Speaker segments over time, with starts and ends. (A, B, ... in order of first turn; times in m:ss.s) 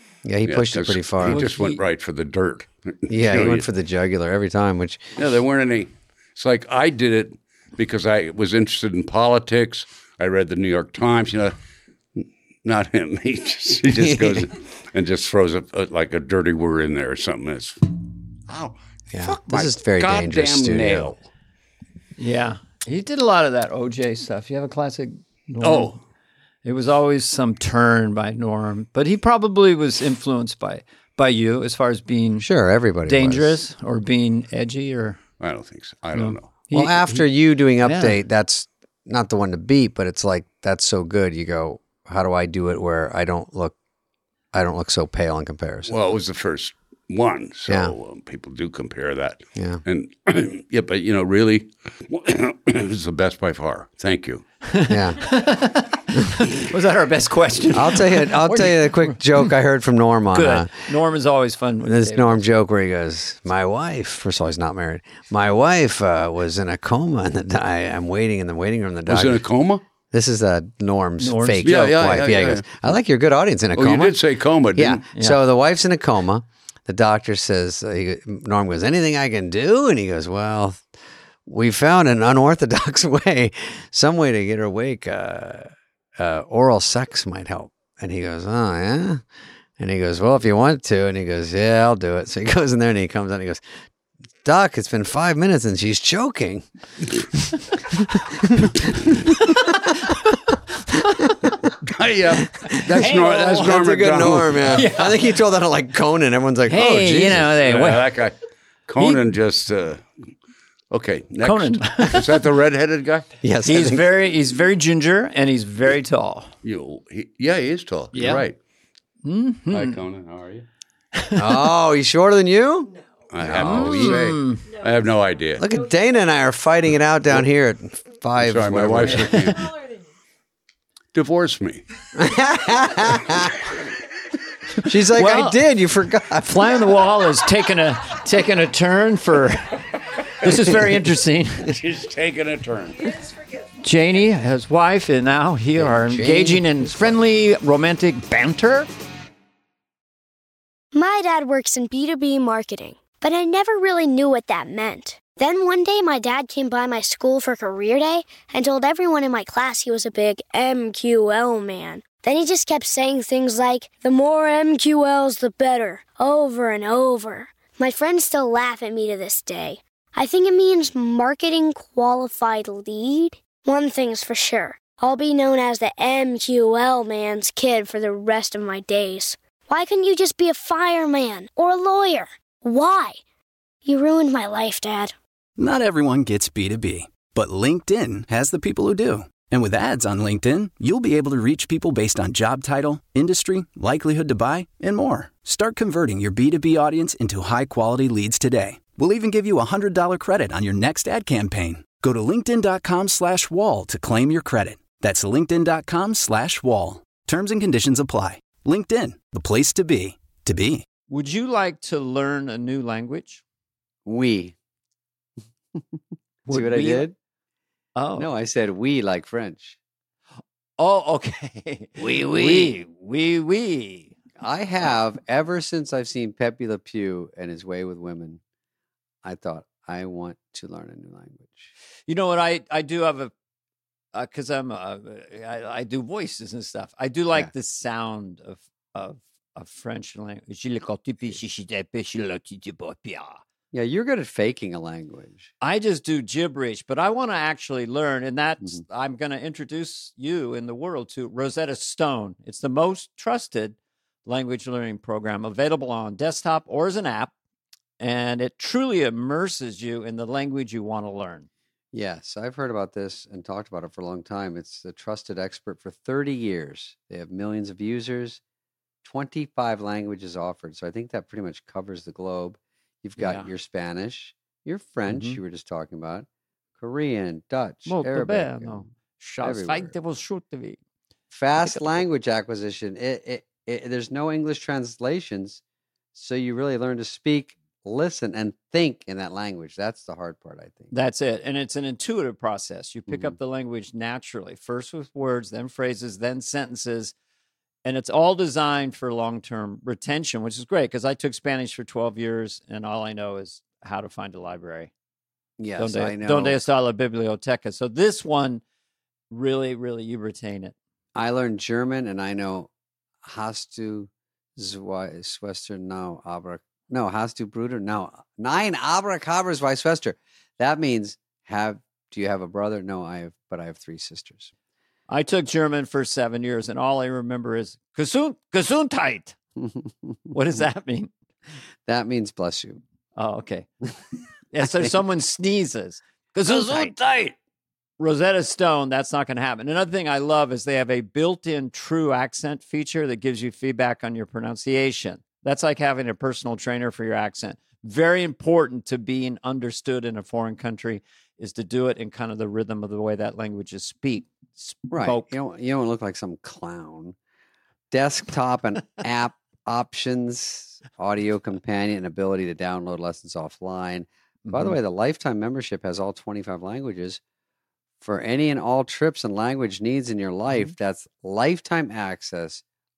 0:00.2-0:01.5 A
0:00.4-0:03.7 B
0:01.3-0:01.8 C
0:03.1-0:05.1 A
0:05.2-0:11.6 B
0:12.2-0:21.2 B
0:13.9-0:14.5 A
0:19.1-0:21.1 A
0:22.2-0:26.0 C
0:25.6-0:26.0 B
0:26.6-0:32.5 C
0:32.4-0:33.6 A
0:33.1-0:35.2 C
0:35.4-0:36.5 B
0:36.2-0:37.3 C
0:36.7-0:43.8 A
0:37.8-0:38.2 C
0:44.5-0:45.9 A
0:45.9-0:54.4 B
0:47.7-0:47.9 A
0:49.6-0:49.8 A
0:54.6-0:59.5 C
0:54.9-0:55.2 A
0:57.7-1:00.7 A
1:00.3-1:02.5 C
1:01.8-1:09.4 A
1:09.1-1:09.8 B
1:10.1-1:14.2 A
1:11.2-1:11.8 C
1:11.6-1:12.7 B
1:13.8-1:15.0 B
1:14.8-1:20.8 A
1:15.2-1:15.4 C
1:21.5-1:29.2 A
1:29.8-1:33.6 A
1:34.4-1:36.7 A
1:37.9-1:39.7 A
1:41.8-1:44.9 B
1:42.6-1:47.5 A
1:43.0-1:43.7 C
1:44.7-1:45.3 C
1:46.7-1:48.0 C
1:47.6-1:48.4 B
1:48.9-1:50.0 B
1:50.9-1:53.3 B
1:51.4-1:52.3 C
1:53.4-1:54.1 A
1:53.7-1:56.5 C
1:56.6-1:58.6 B
1:58.1-1:58.4 C
1:59.2-2:00.0 C
1:59.7-2:00.7 B
2:01.2-2:01.6 C
2:01.4-2:02.9 A
2:02.9-2:04.1 D
2:03.3-2:05.6 B
2:03.4-2:04.0 A
2:03.6-2:04.6 C
2:04.6-2:06.3 D
2:05.6-2:09.4 A
2:08.4-2:09.7 B
2:09.1-2:10.1 D
2:11.1-2:11.8 B
2:12.2-2:13.6 A
2:14.8-2:15.6 C
2:14.8-2:16.8 A
2:16.4-2:19.8 C
2:20.4-2:21.8 C
2:21.6-2:23.1 B
2:22.9-2:23.8 D
2:23.8-2:28.9 C
2:25.8-2:27.1 A
2:30.9-3:03.2 E
3:03.8-3:05.2 E
3:05.6-3:30.8 F
3:31.1-3:33.4 C
3:34.1-3:34.6 A
3:36.5-3:37.1 C
3:36.5-3:37.2 A
3:38.0-3:38.3 C
3:38.2-3:39.8 A
3:40.8-3:44.1 C
3:42.0-3:42.7 A
3:44.4-3:48.4 A
3:49.2-3:51.7 A
3:52.1-3:53.3 C
3:54.1-4:03.4 C
4:03.7-4:05.5 A
4:05.6-4:17.3 C
4:18.0-4:21.5 C
4:21.9-4:28.4 A
4:29.0-4:36.3 A
4:33.2-4:33.5 C
4:35.1-4:35.4 C
4:36.8-4:38.9 A
4:37.9-4:40.8 C
4:39.4-4:39.9 A
4:41.3-4:45.6 A
4:41.6-4:41.9 C
4:46.1-4:50.9 A
4:50.9-4:57.1 C
4:53.1-4:53.4 A
4:57.8-5:04.9 C
5:05.6-5:06.6 A
5:05.8-5:08.6 C
5:09.3-5:10.7 C
5:11.2-5:12.7 A
5:13.2-5:24.5 A
5:25.1-5:29.4 C
5:30.3-5:31.1 C
5:31.9-5:32.8 A
5:33.2-5:33.7 C
5:34.5-5:37.0 C
5:36.5-5:37.3 A
5:38.0-5:55.4 C
5:54.9-5:57.2 A
5:57.9-6:07.2 A
6:04.4-6:04.8 C
6:08.0-6:12.6 A